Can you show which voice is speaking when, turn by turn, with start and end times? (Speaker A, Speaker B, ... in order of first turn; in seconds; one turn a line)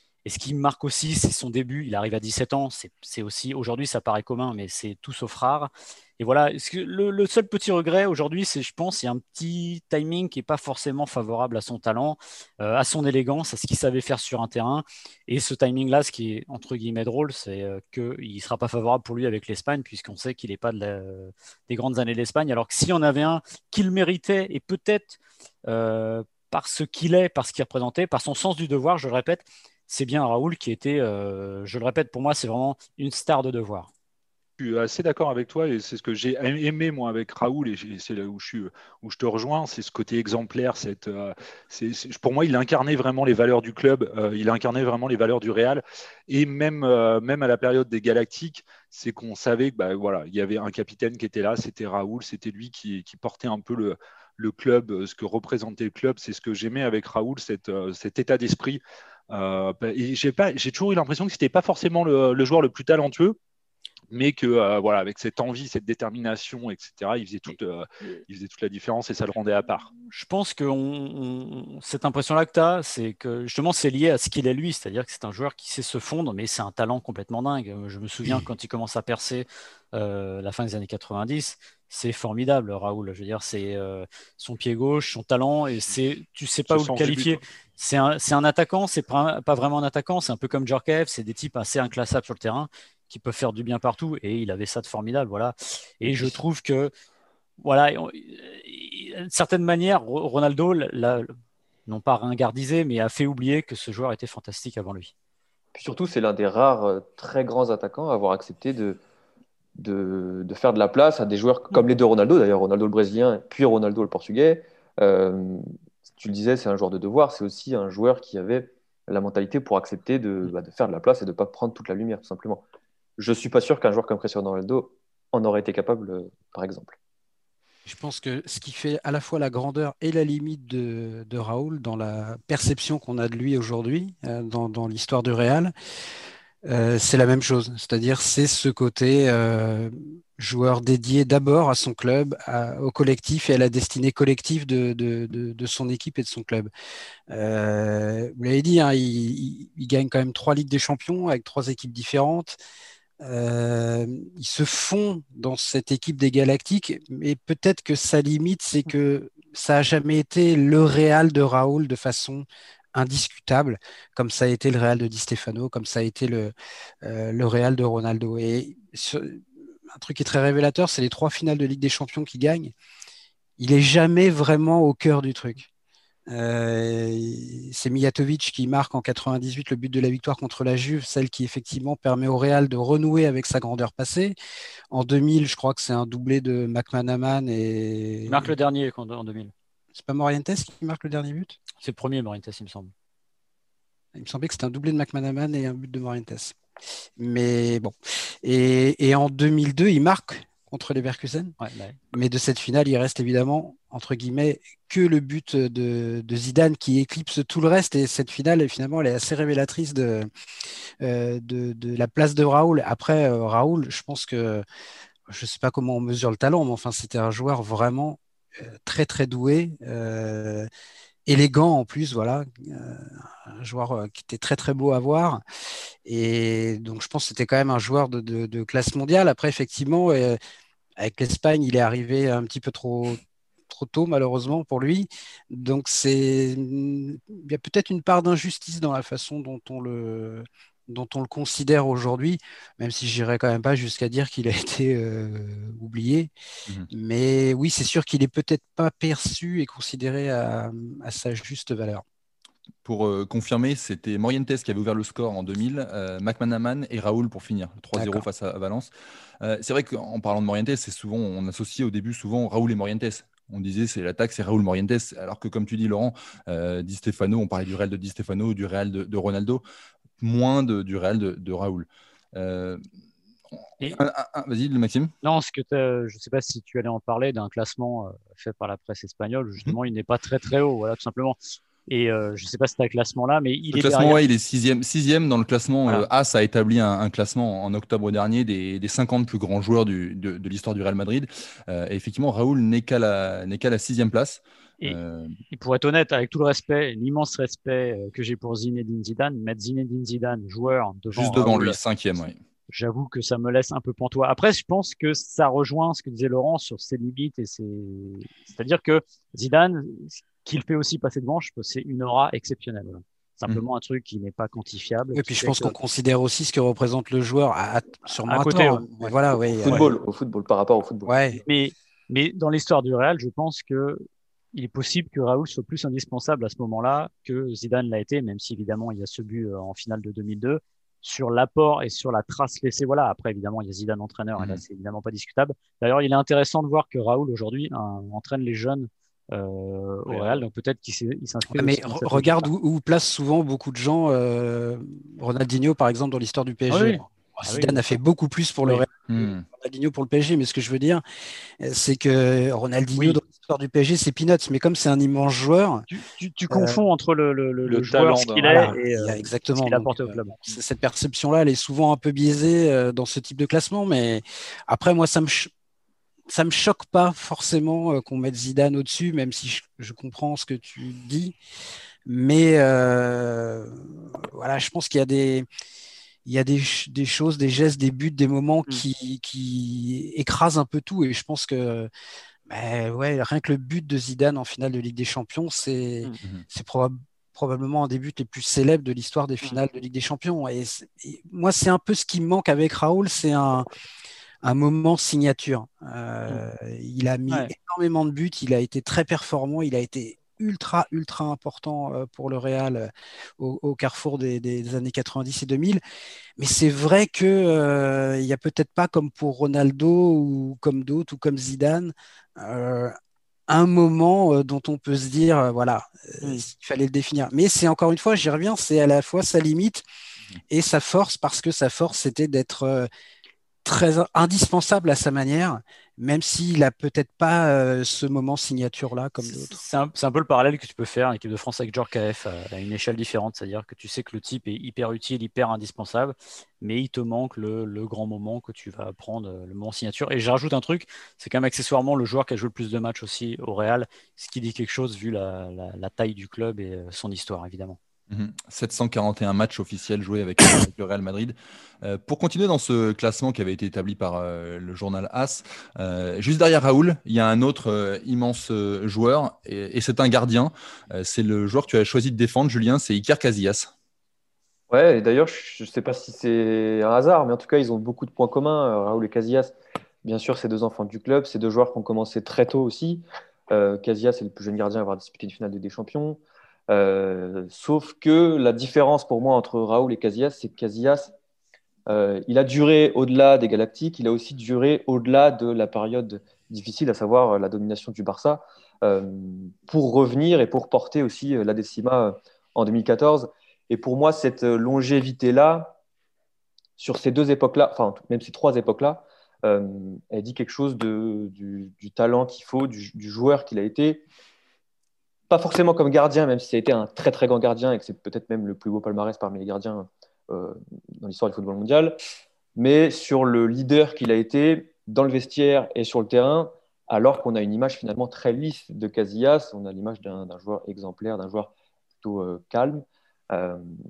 Speaker A: 0.2-33.9
Speaker B: 34.6-58.8
Speaker B: 59.3-63.4
Speaker B: 64.1-69.9
Speaker A: 70.1-96.9
Speaker B: 86.7-87.4
Speaker A: 97.6-101.3
Speaker A: 101.9-105.1
Speaker C: 105.7-109.0
Speaker C: 109.8-115.7
Speaker C: 116.2-122.6
Speaker C: 123.2-127.0
Speaker D: 127.8-135.7
Speaker D: 136.7-146.7
Speaker D: 147.3-152.6
Speaker D: 153.2-172.7
Speaker D: 173.6-175.7
Speaker D: 176.3-184.3
Speaker D: 184.9-188.5
Speaker A: 188.3-189.5
Speaker D: 189.9-191.6
Speaker A: 191.8-192.9
Speaker D: 194.1-196.6
Speaker D: 197.2-201.5
Speaker A: 201.6-202.0
Speaker D: 202.1-210.3
Speaker D: 211.0-214.6
Speaker D: 215.3-220.7
Speaker D: 221.2-225.4
Speaker D: 226.1-230.4
Speaker D: 231.0-246.3
Speaker D: 246.9-252.0
Speaker E: 252.8-258.9
Speaker D: 257.9-258.2
Speaker E: 259.4-269.6
Speaker E: 270.2-272.8
Speaker E: 273.8-275.1
Speaker A: 275.2-284.2
Speaker E: 283.7-295.4
Speaker A: 295.5-301.8
Speaker E: 301.1-302.4
Speaker A: 302.7-315.7
Speaker D: 315.1-319.9
Speaker A: 318.1-319.1
Speaker C: 319.5-321.1
Speaker D: 321.1-321.4
Speaker A: 321.4-342.5
Speaker B: 340.1-340.4
Speaker D: 341.5-351.0
Speaker A: 346.7-347.8
Speaker E: 349.1-349.4
Speaker D: 351.6-355.9
Speaker A: 355.9-360.6
Speaker D: 356.5-356.8
Speaker B: 357.6-358.7
Speaker D: 358.4-365.5
Speaker D: 366.3-371.4
Speaker D: 372.1-375.5
Speaker D: 376.2-381.9
Speaker D: 382.5-393.6
Speaker D: 394.4-405.8
Speaker D: 406.4-412.9
Speaker D: 413.5-419.8
Speaker D: 420.5-422.9
Speaker D: 423.6-429.6
Speaker A: 429.2-447.8
Speaker E: 448.1-463.7
Speaker C: 464.7-481.1
Speaker C: 481.9-495.8
Speaker C: 496.8-504.0
Speaker C: 505.3-512.0
Speaker C: 512.5-523.8